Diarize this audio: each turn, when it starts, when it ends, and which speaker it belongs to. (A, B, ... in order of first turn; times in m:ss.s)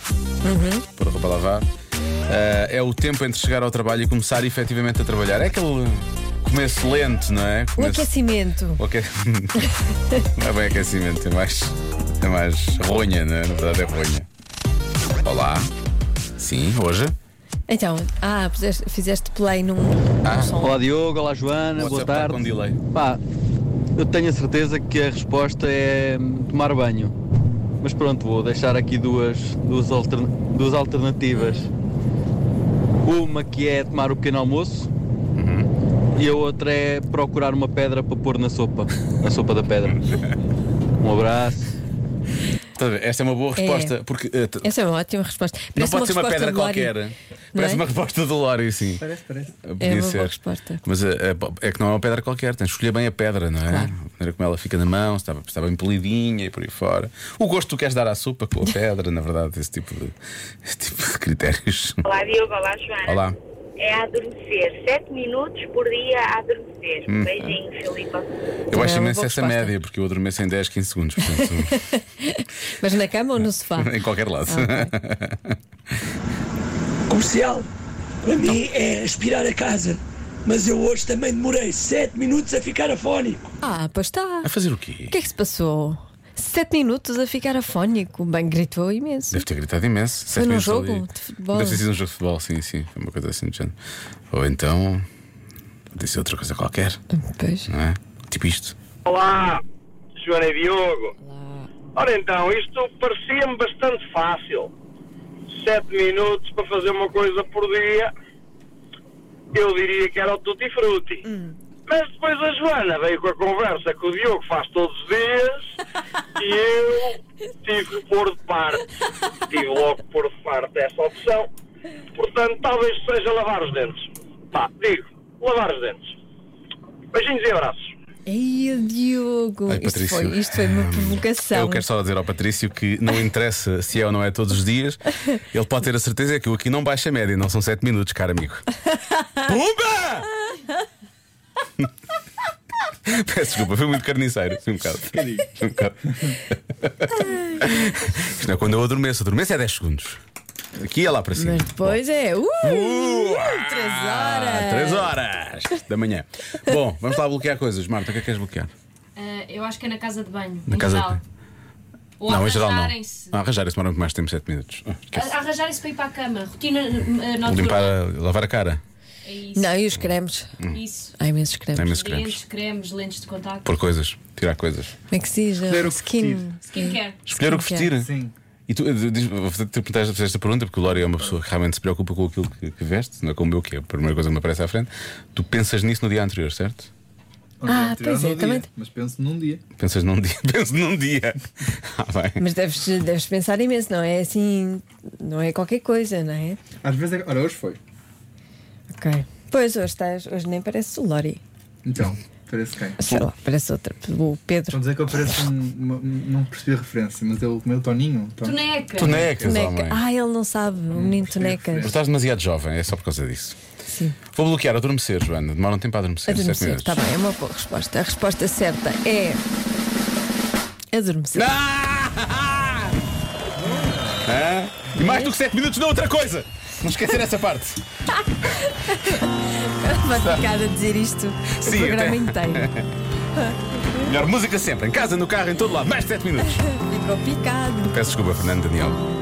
0:00.4-0:00.9 A
0:01.0-0:01.7 B
0:02.3-0:08.1 B
0:07.8-0:08.8 A
0:08.8-0:09.7 B
0:10.4-0:14.3 B
0:15.2-0:15.7 B
0:16.4-0:17.2 B
0:17.7-0:20.8 A
0:20.2-0:20.5 B
0:20.6-0:23.2 C
0:21.8-0:22.8 B
0:24.0-0:27.1 C
0:27.8-0:31.7 C
0:33.0-0:34.9 C
0:35.4-0:35.7 B
0:36.2-0:40.0 C
0:41.0-0:41.7 C
0:42.8-0:44.7 B
0:43.6-0:43.9 A
0:44.6-0:47.0 A
0:45.8-0:49.0 B
0:47.5-0:47.8 A
0:49.0-0:49.6 D
0:49.6-1:02.0 B
0:49.8-0:50.8 A
0:53.7-0:53.9 A
1:02.1-1:03.2 E
1:03.1-1:03.4 B
1:03.8-1:08.2 E
1:07.1-1:07.6 B
1:08.7-1:11.8 B
1:08.7-1:09.8 A
1:11.2-1:14.0 A
1:13.8-1:15.6 B
1:14.5-1:14.9 A
1:17.1-1:17.7 F
1:18.2-1:23.5 F
1:23.6-1:24.5 A
1:24.4-1:25.2 B
1:25.1-1:29.4 A
1:29.3-1:33.8 B
1:30.3-1:31.8 A
1:34.3-1:35.0 B
1:35.9-1:37.0 B
1:37.1-1:37.7 A
1:37.7-1:38.8 B
1:39.0-1:39.6 G
1:40.2-1:41.1 G
1:41.3-1:41.7 A
1:41.9-1:44.7 G
1:45.5-1:48.1 G
1:49.5-1:51.2 G
1:51.2-1:51.6 A
1:51.9-1:55.8 G
1:56.4-1:58.8 G
1:59.5-2:01.5 G
2:02.2-2:06.1 G
2:07.1-2:07.9 G
2:08.3-2:11.9 A
2:09.7-2:18.7 B
2:19.4-2:20.3 B
2:23.1-2:30.2 B
2:25.0-2:25.5 D
2:27.2-2:27.6 A
2:30.8-2:32.0 B
2:31.4-2:35.2 A
2:32.6-2:38.7 B
2:39.2-2:41.2 H
2:40.7-2:41.2 B
2:42.2-2:43.4 H
2:42.2-2:45.3 B
2:45.1-2:48.0 H
2:47.4-2:48.8 B
2:49.2-2:49.8 H
2:49.5-2:50.6 A
2:50.7-2:51.2 H
2:51.2-2:52.0 A
2:51.7-2:52.4 B
2:51.9-2:53.8 H
2:53.6-2:54.9 B
2:55.1-2:57.9 A
2:55.6-2:56.6 D
2:56.7-2:57.2 H
2:57.3-2:58.1 B
2:58.0-2:58.4 D
2:58.7-3:06.9 B
3:07.6-3:09.6 D
3:07.7-3:08.7 A
3:09.8-3:12.4 B
3:12.4-3:16.6 A
3:16.8-3:17.8 D
3:18.9-3:21.4 A
3:21.8-3:23.0 D
3:23.0-3:24.8 A
3:24.7-3:29.4 D
3:28.4-3:29.2 H
3:28.9-3:30.0 B
3:29.4-3:31.9 A
3:30.9-3:32.0 D
3:31.8-3:33.6 B
3:33.8-3:34.2 A
3:34.3-3:37.0 B
3:36.3-3:39.4 A
3:40.9-3:41.5 A
3:41.3-3:43.0 B
3:43.6-3:44.2 D
3:44.2-3:47.8 B
3:45.0-3:45.3 A
3:48.3-3:52.7 A
3:50.2-3:50.5 B
3:51.5-3:52.9 B
3:53.4-3:54.1 A
3:54.0-3:56.7 B
3:56.5-3:58.2 A
3:57.9-3:59.0 B